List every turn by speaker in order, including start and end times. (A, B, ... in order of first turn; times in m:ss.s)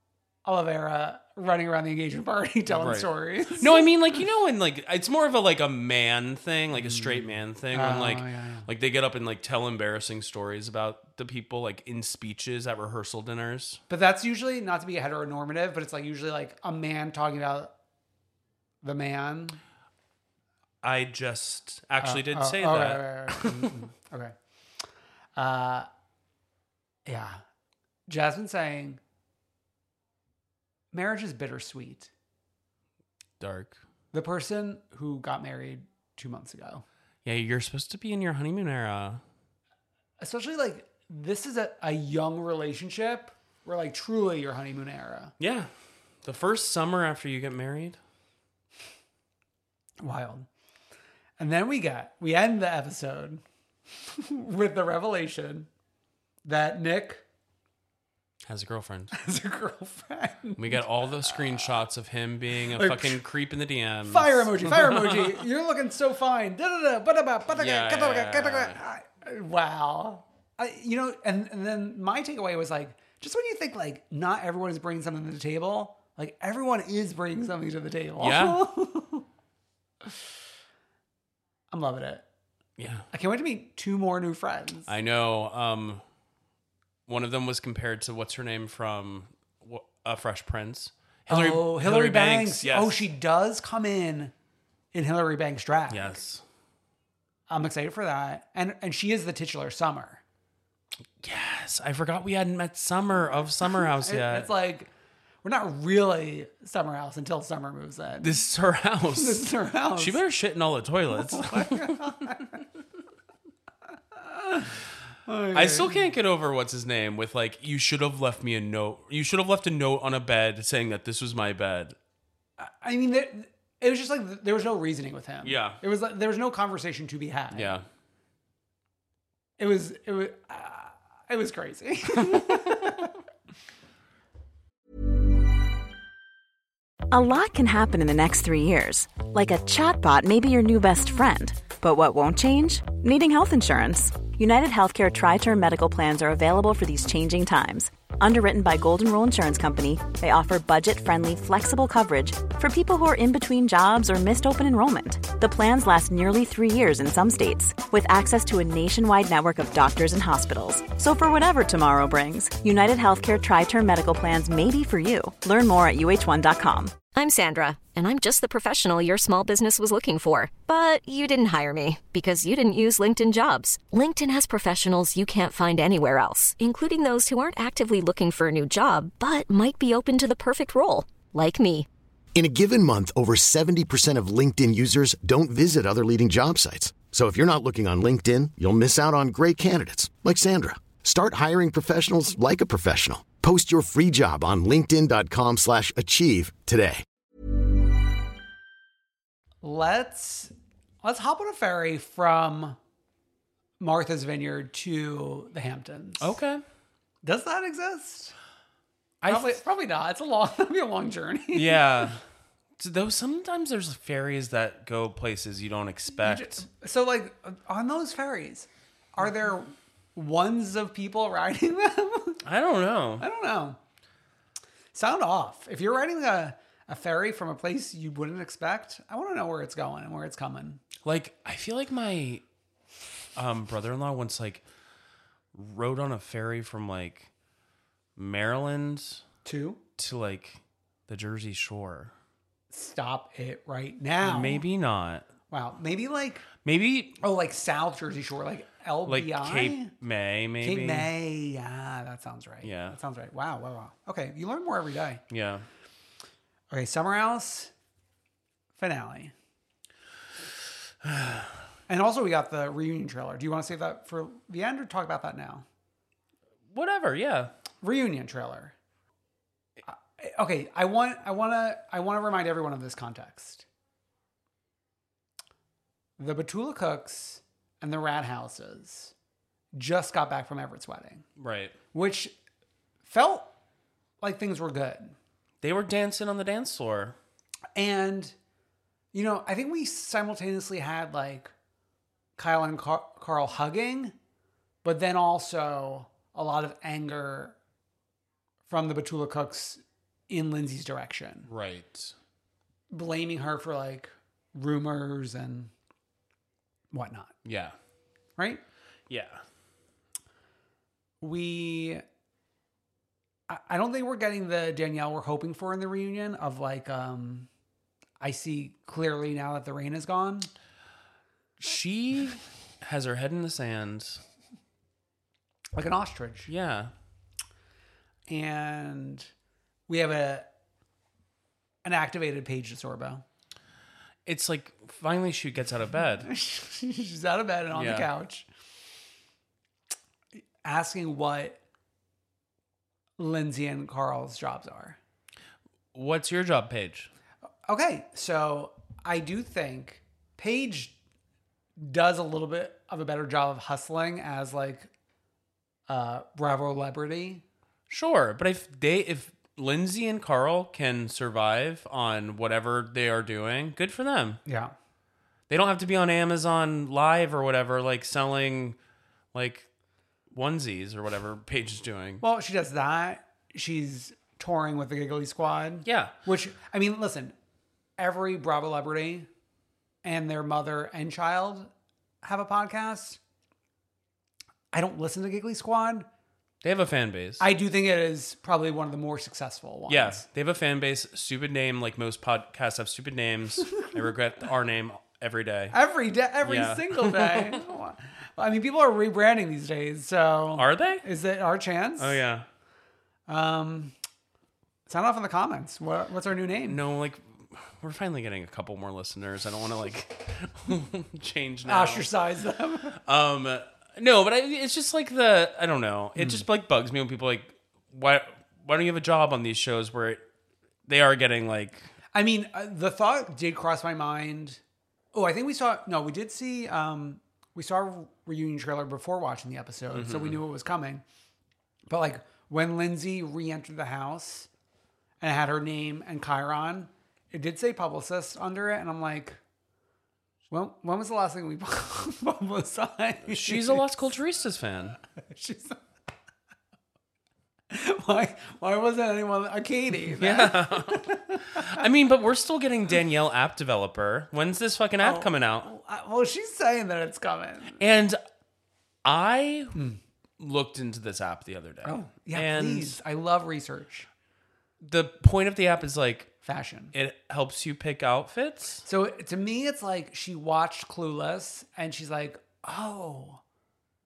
0:00.4-0:03.9 A
0:02.7-0:13.8 B
0:06.8-0:08.7 A
0:13.9-0:17.7 A
0:18.8-0:19.6 A
0:20.8-0:23.8 B
0:22.0-0:24.3 A
0:25.4-0:25.9 A
0:27.0-0:27.4 A
0:28.1-0:29.0 A
0:30.9-0:32.1 A
0:33.4-0:33.8 B
0:34.1-0:36.8 A
0:37.2-0:39.2 B
0:40.2-0:45.3 A
0:45.4-0:45.7 B
0:46.2-0:48.0 B
0:50.0-0:50.5 A
0:51.4-0:53.4 A
0:54.1-0:55.7 A
0:56.4-0:57.2 A
0:58.4-0:59.1 B
0:59.1-1:01.7 A
1:00.6-1:05.4 B
1:02.7-1:03.2 A
1:04.0-1:19.2 A
1:07.5-1:08.8 B
1:18.2-1:18.6 B
1:21.7-1:22.2 A
1:22.8-1:23.1 B
1:23.1-1:24.9 A
1:24.9-1:26.0 B
1:27.1-1:33.1 B
1:31.3-1:34.3 A
1:34.9-1:36.2 A
1:35.9-1:36.4 B
1:37.5-1:40.2 A
1:41.2-1:44.5 B
1:44.0-1:44.9 A
1:45.4-1:48.4 A
1:48.2-1:52.1 B
1:49.1-1:50.2 A
1:51.2-1:52.6 A
1:54.2-1:54.7 A
1:55.3-1:56.0 A
1:55.5-2:02.0 B
2:02.6-2:07.8 A
2:05.4-2:05.8 B
2:07.5-2:07.8 B
2:09.6-2:13.1 A
2:12.3-2:12.6 B
2:17.1-2:47.0 C
2:47.1-3:01.9 D
3:02.3-3:17.0 E
3:19.6-3:22.8 A
3:23.8-3:26.4 A
3:26.2-3:26.6 B
3:27.2-3:28.3 A
3:29.2-3:29.6 B
3:29.2-3:31.8 A
3:31.5-3:32.2 B
3:32.8-3:36.6 B
3:36.2-3:42.4 A
3:42.4-3:43.2 B
3:43.2-3:43.8 A
3:44.9-3:50.8 A
3:51.0-3:52.4 B
3:53.4-3:54.6 B
3:55.5-3:57.3 B
3:58.2-3:59.2 B
3:59.4-3:59.8 A
4:00.0-4:02.1 B
4:02.7-4:04.6 A
4:04.2-4:05.3 B
4:05.5-4:06.5 A
4:06.6-4:07.2 B
4:07.2-4:09.9 A
4:09.1-4:11.1 B
4:10.6-4:15.2 A
4:12.6-4:13.0 B
4:15.3-4:15.6 B
4:16.7-4:17.7 A
4:18.8-4:19.3 A
4:21.0-4:21.5 B
4:21.9-4:25.6 A
4:26.7-4:27.5 B
4:27.8-4:28.7 A
4:29.9-4:33.6 A
4:36.2-4:39.1 A
4:39.7-4:41.2 A
4:41.4-4:41.8 B
4:41.9-4:42.3 A
4:43.0-4:43.5 A
4:44.2-4:45.1 A
4:45.6-4:47.2 B
4:47.8-4:48.3 A
4:49.1-4:51.5 A
4:52.4-4:54.1 A
4:54.8-4:57.5 A
4:58.7-5:01.5 A
5:01.5-5:02.1 B
5:02.9-5:05.7 A
5:06.9-5:07.3 A
5:07.4-5:07.7 B
5:08.4-5:08.6 A
5:09.1-5:09.4 B
5:11.2-5:12.0 A
5:13.5-5:17.5 A
5:18.2-5:20.5 A
5:21.6-5:24.2 B
5:25.8-5:26.5 A
5:26.5-5:26.9 B
5:28.3-5:29.3 A
5:29.9-5:30.5 A
5:31.8-5:33.2 A
5:34.2-5:36.3 B
5:36.2-5:38.5 A
5:37.7-5:38.1 B
5:40.6-5:41.6 A
5:43.2-5:45.0 A
5:45.9-5:47.1 B
5:47.7-5:51.0 A
5:51.8-5:54.9 A
5:55.9-5:57.4 A
5:57.9-6:04.4 B
6:04.4-6:04.7 A
6:05.5-6:08.8 B
6:09.3-6:09.7 B
6:10.3-6:12.2 B
6:12.2-6:17.3 A
6:15.8-6:16.1 B
6:18.0-6:19.3 A
6:20.0-6:21.7 A
6:22.2-6:23.2 A
6:24.7-6:26.1 A
6:26.6-6:27.5 B
6:27.4-6:30.2 A
6:29.9-6:35.8 B
6:35.7-6:42.2 A
6:36.4-6:37.6 B
6:40.6-6:41.0 B
6:42.0-6:42.4 B
6:43.3-6:43.9 A
6:44.9-6:46.8 A
6:46.7-6:52.1 B
6:51.6-6:53.0 A
6:53.0-7:00.2 B
6:56.2-6:56.4 A
7:00.9-7:01.9 B
7:02.1-7:04.6 A
7:05.1-7:11.0 A
7:09.9-7:10.4 B
7:11.9-7:14.5 A
7:15.2-7:19.4 A
7:20.5-7:23.9 A
7:23.3-7:25.0 B
7:25.2-7:25.8 A
7:27.7-7:31.8 A
7:30.1-7:35.7 B
7:35.0-7:37.8 A
7:37.8-7:38.2 B
7:39.0-7:39.8 B
7:40.4-7:43.0 B
7:41.8-7:44.1 A
7:44.8-7:46.3 B
7:46.4-7:46.9 A
7:46.9-7:48.8 B
7:48.8-7:53.4 A